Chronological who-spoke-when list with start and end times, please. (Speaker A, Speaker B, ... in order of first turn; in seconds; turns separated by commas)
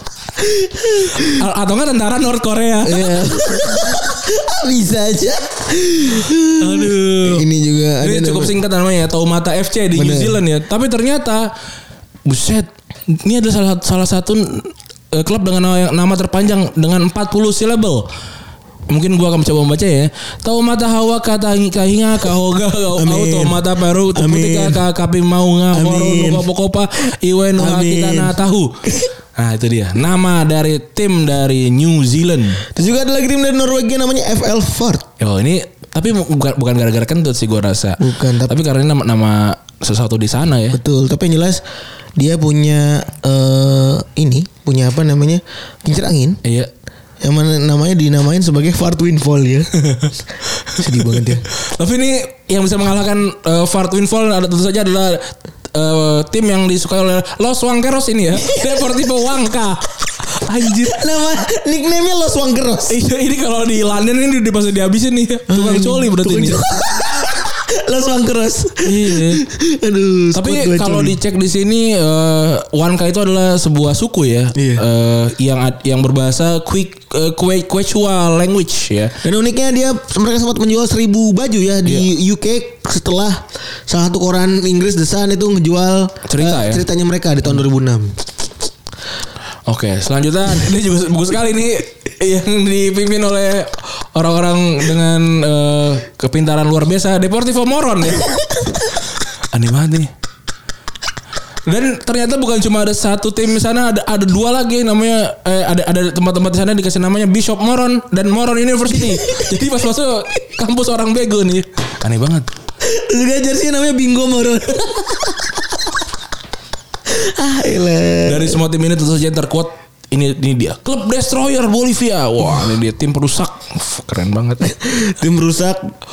Speaker A: 0.4-1.4, Speaker B: 1.2-3.2, Speaker A: 2.8-8.6, Speaker B: 6.6-7.5, Speaker B: 8.0-11.5, Speaker A: 9.9-10.4, Speaker B: 12.2-18.1, Speaker B: 18.9-28.8, Speaker A: 22.9-24.8, Speaker A: 25.7-26.5, Speaker A: 27.5-29.1, Speaker B: 29.4-32.6, Speaker A: 32.7-35.0, Speaker B: 35.2-40.8, Speaker A: 38.0-38.6, Speaker A: 40.7-41.6, Speaker A: 42.1-46.4, Speaker B: 46.4-46.7, Speaker A: 47.2-49.7, Speaker B: 49.8-50.1, Speaker B: 50.7-61.0, Speaker A: 50.8-51.4, Speaker A: 58.5-58.9, Speaker A: 60.8-63.0, Speaker B: 62.9-66.6, Speaker A: 65.5-71.2, Speaker B: 68.8-69.4, Speaker B: 70.3-79.2, Speaker A: 74.5-74.8, Speaker A: 79.2-88.2, Speaker B: 86.2-86.8, Speaker B: 89.7-99.0, Speaker B: 99.5-100.1, Speaker B: 101.7-112.5, Speaker A: 108.9-109.5, Speaker A: 112.8-115.8, Speaker A: 117.1-118.6, Speaker B: 118.2-124.7, Speaker A: 124.6-125.8